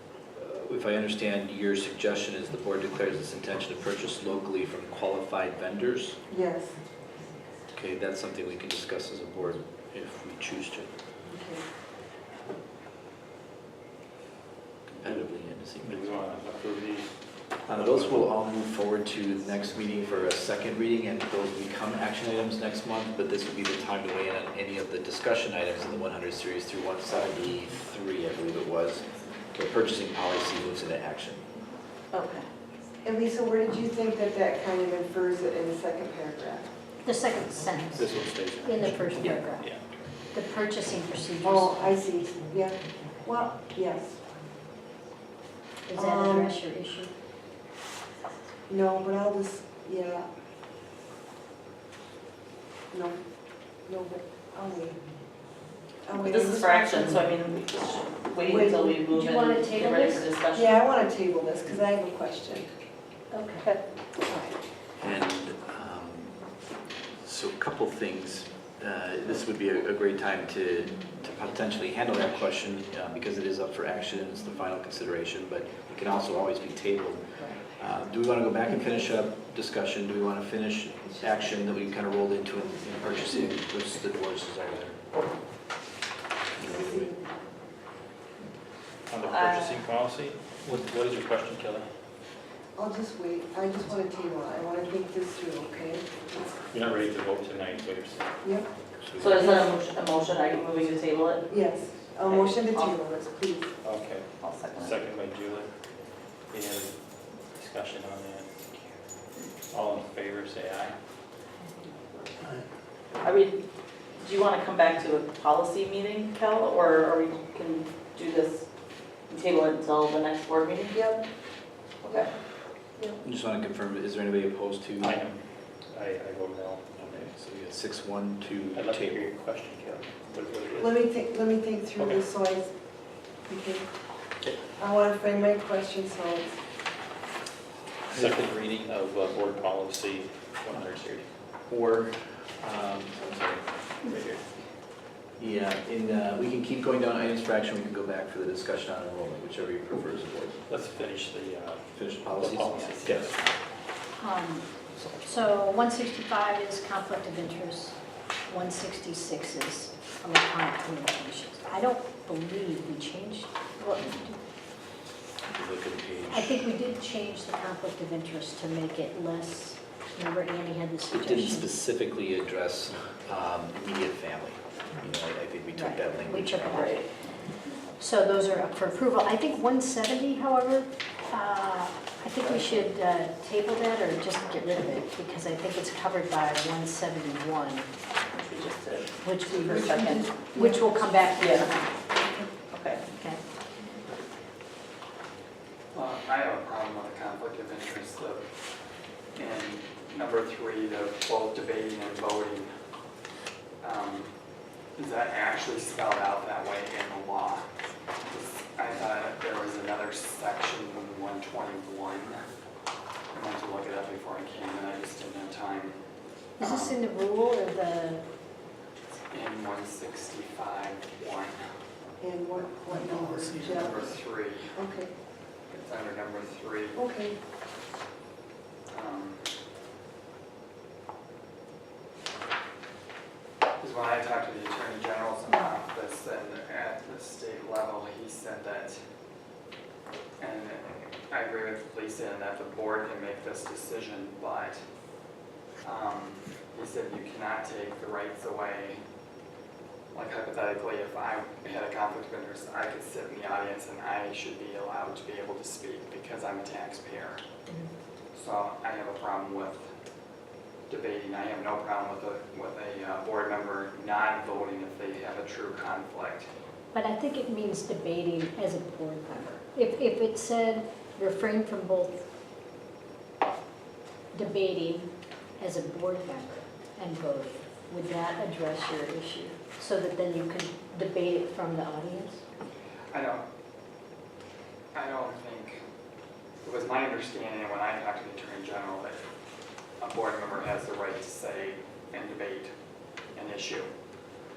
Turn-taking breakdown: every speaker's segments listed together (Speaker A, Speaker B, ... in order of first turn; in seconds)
Speaker A: 0.3-6.2, 7.7-10.9, 15.0-16.2, 17.7-31.4, 64.9-66.4, 67.2-85.0, 86.5-87.1, 99.0-99.4, 123.2-125.1, 127.4-129.2, 141.7-143.2, 145.4-150.6, 151.9-153.3, 165.5-166.6, 171.1-176.9
Speaker B: 6.3-6.7, 11.2-11.6, 33.0-36.7, 41.4-44.1, 46.0-46.6, 48.7-50.3, 52.9-53.2, 53.9-55.0, 56.0-57.2, 58.4-59.1, 60.5-62.7, 86.6-87.2, 92.8-96.6, 98.4-98.7, 99.3-99.7, 101.5-103.7, 120.9-121.2, 130.8-132.7, 133.5-133.9, 134.8-136.6, 189.5-191.4, 192.1-192.5, 222.2-224.0, 224.7-225.1, 226.9-227.4
Speaker C: 15.8-18.3, 38.0-40.2, 89.1-91.9, 96.7-98.4, 101.4-102.0, 103.8-105.7, 106.5-108.8, 109.7-111.0, 125.0-127.4, 128.7-131.1, 131.9-132.2, 138.1-141.3, 143.2-144.4, 150.7-153.3, 154.9-155.3
Speaker D: 32.1-32.5, 56.2-60.8, 89.2-89.8, 99.2-101.5, 102.3-103.0, 104.3-105.0, 113.2-113.6, 114.2-118.7, 119.3-121.0, 122.0-122.3, 176.8-177.1, 182.4-182.8, 188.3-189.2, 189.7-190.3, 191.4-191.7, 192.7-193.0
Speaker E: 37.0-39.7, 40.3-41.8, 45.9-47.1, 59.1-60.3, 63.3-63.7, 64.2-64.6, 154.2-164.4, 166.3-171.7, 175.7-177.3, 178.0-187.9, 189.2-189.8, 190.5-192.0, 193.1-193.4, 216.6-218.2, 235.5-235.7, 266.9-272.2, 274.3-282.4
Speaker F: 195.9-198.4, 199.3-202.7, 203.8-204.3, 205.0-207.6, 208.3-212.4, 213.3-216.0, 216.6-217.0, 219.3-221.6, 223.0-224.7, 225.7-227.0, 228.9-229.4, 233.8-239.0, 240.4-244.8, 245.8-249.0, 250.1-257.4, 258.3-259.9, 260.9-266.5, 283.1-283.4, 284.9-285.8, 286.6-289.2, 290.0-292.7, 293.3-293.9